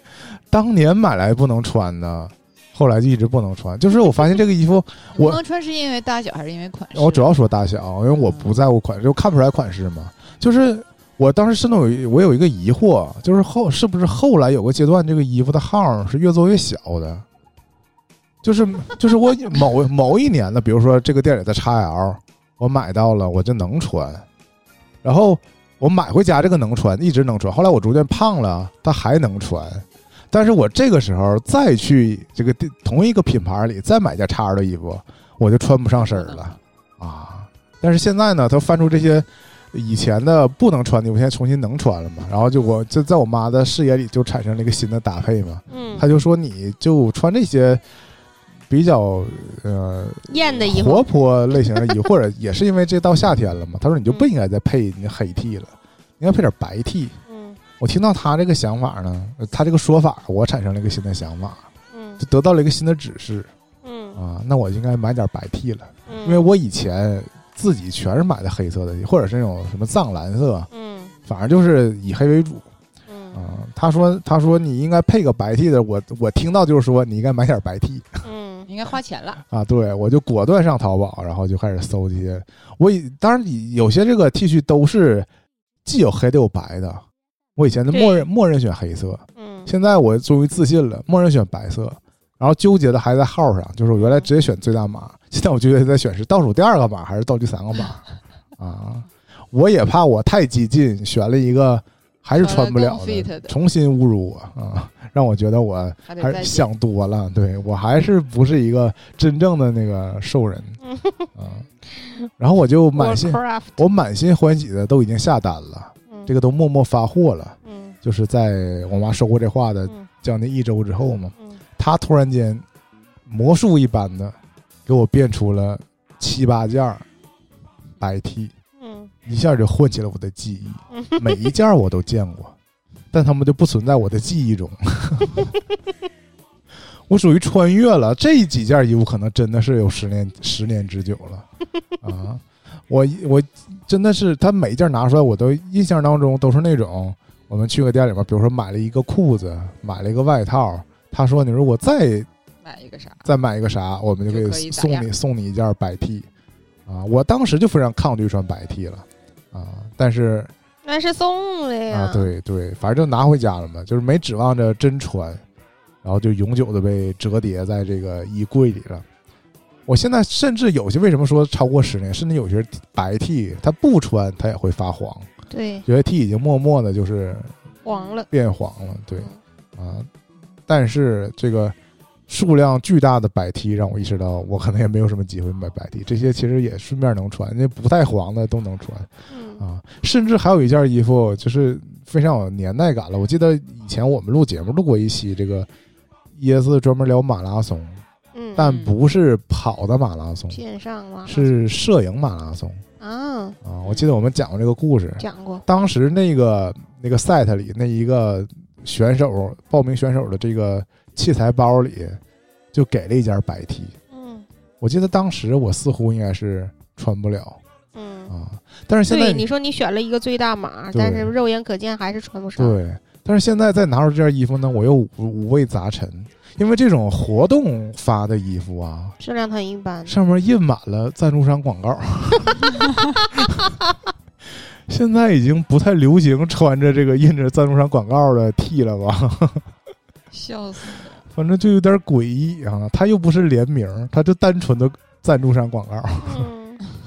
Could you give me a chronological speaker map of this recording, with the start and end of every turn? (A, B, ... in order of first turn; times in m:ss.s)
0:00.5-0:05.4 A
0:05.1-0:07.3 B
0:06.9-0:17.2 A
0:08.1-0:08.6 B
0:18.4-0:24.2 A
0:25.0-0:47.8 A
0:36.0-0:36.6 B
0:45.7-0:46.0 C
0:48.7-0:57.2 A
0:50.3-0:52.0 C
0:57.3-0:57.6 C
0:57.8-1:01.7 A
1:01.9-1:02.2 C
1:02.2-1:03.5 A
1:03.8-1:04.2 C
1:04.2-1:10.7 A
1:06.1-1:06.4 C
1:10.7-1:11.1 C
1:11.3-1:12.6 A
1:13.1-1:13.4 C
1:13.3-1:18.2 A
1:18.2-1:18.7 C
1:18.7-1:19.4 B
1:19.5-1:25.3 A
1:25.8-1:27.0 A
1:27.6-1:38.0 A
1:27.9-1:28.2 B
1:29.4-1:29.7 C
1:34.0-1:34.3 C
1:38.6-1:50.8 A
1:42.3-1:43.5 B
1:46.1-1:46.7 B
1:50.8-1:51.3 C
1:51.4-1:51.7 A
1:52.0-1:52.3 C
1:52.4-2:02.6 A
1:53.0-1:53.8 C
1:57.6-1:58.0 C
2:03.3-2:07.0 A
2:08.0-2:08.5 A
2:08.8-2:09.1 C
2:09.2-2:12.5 A
2:10.9-2:11.4 C
2:13.1-2:15.5 A
2:17.1-2:21.4 A
2:22.0-2:32.3 A
2:32.6-2:33.2 B
2:33.2-2:36.3 A
2:34.3-2:35.1 B
2:36.8-2:40.5 A
2:40.8-2:42.3 C
2:41.9-2:45.4 A
2:46.0-2:49.0 A
2:49.9-2:55.3 A
2:55.5-2:55.8 C
2:55.8-2:57.5 A
2:57.8-2:58.3 C
2:58.3-3:00.1 A
3:00.7-3:01.7 A
3:02.3-3:15.7 A
3:09.3-3:09.6 C
3:16.3-3:18.0 A
3:18.3-3:18.6 C
3:18.6-3:20.6 A
3:18.6-3:19.0 B
3:20.5-3:21.5 C
3:21.2-3:22.8 A
3:23.0-3:23.6 C
3:23.6-3:32.2 A
3:25.2-3:25.6 C
3:32.7-3:33.9 A
3:34.1-3:34.4 C
3:34.8-3:37.6 A
3:37.9-3:38.3 C
3:38.3-3:39.5 A
3:39.1-3:42.8 C
3:40.9-3:41.3 A
3:42.6-3:49.2 A
3:49.2-3:50.1 C
3:50.0-3:52.8 A
3:53.4-3:53.6 A
3:54.9-3:59.6 A
4:00.3-4:01.2 B
4:01.3-4:06.5 A
4:06.2-4:06.8 C